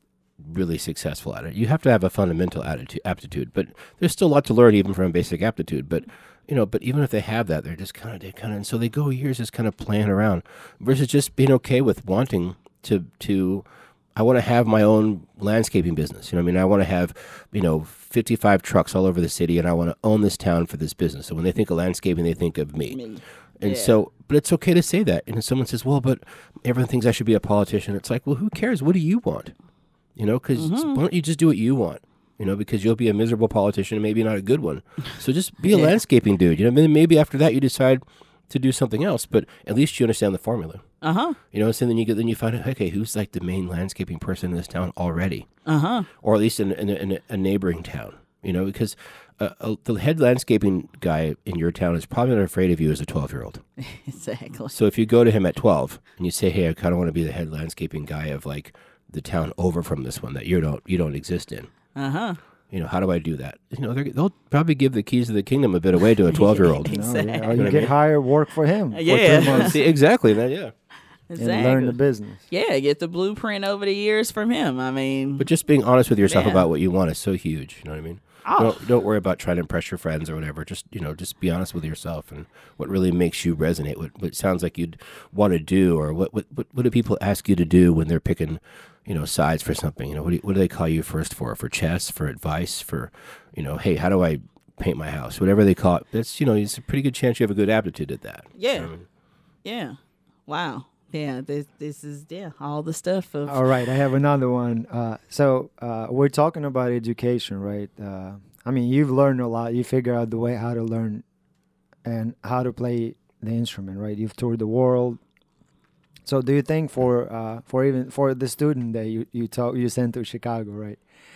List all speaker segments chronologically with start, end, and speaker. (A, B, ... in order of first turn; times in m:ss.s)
0:00.4-0:13.6 A
0:14.2-0:23.0 A
0:22.9-0:24.0 B
0:23.6-0:29.5 A
0:30.2-0:40.8 A
0:30.5-0:31.0 B
0:35.7-0:35.9 B
0:41.0-0:41.4 B
0:41.5-0:45.4 A
0:45.6-0:46.1 B
0:46.2-0:53.6 A
0:53.8-0:54.7 B
0:54.7-1:01.7 A
1:01.9-1:02.4 B
1:02.7-1:07.0 A
1:06.3-1:07.9 B
1:06.9-1:09.7 C
1:07.5-1:07.9 A
1:08.9-1:09.8 B
1:09.1-1:10.7 A
1:11.3-1:15.4 B
1:11.4-1:12.4 C
1:15.4-1:39.0 A
1:16.3-1:16.6 B
1:18.4-1:18.8 B
1:38.6-1:38.9 B
1:39.6-1:43.6 B
1:43.5-1:51.2 C
1:52.0-1:55.2 C
1:56.2-2:01.0 C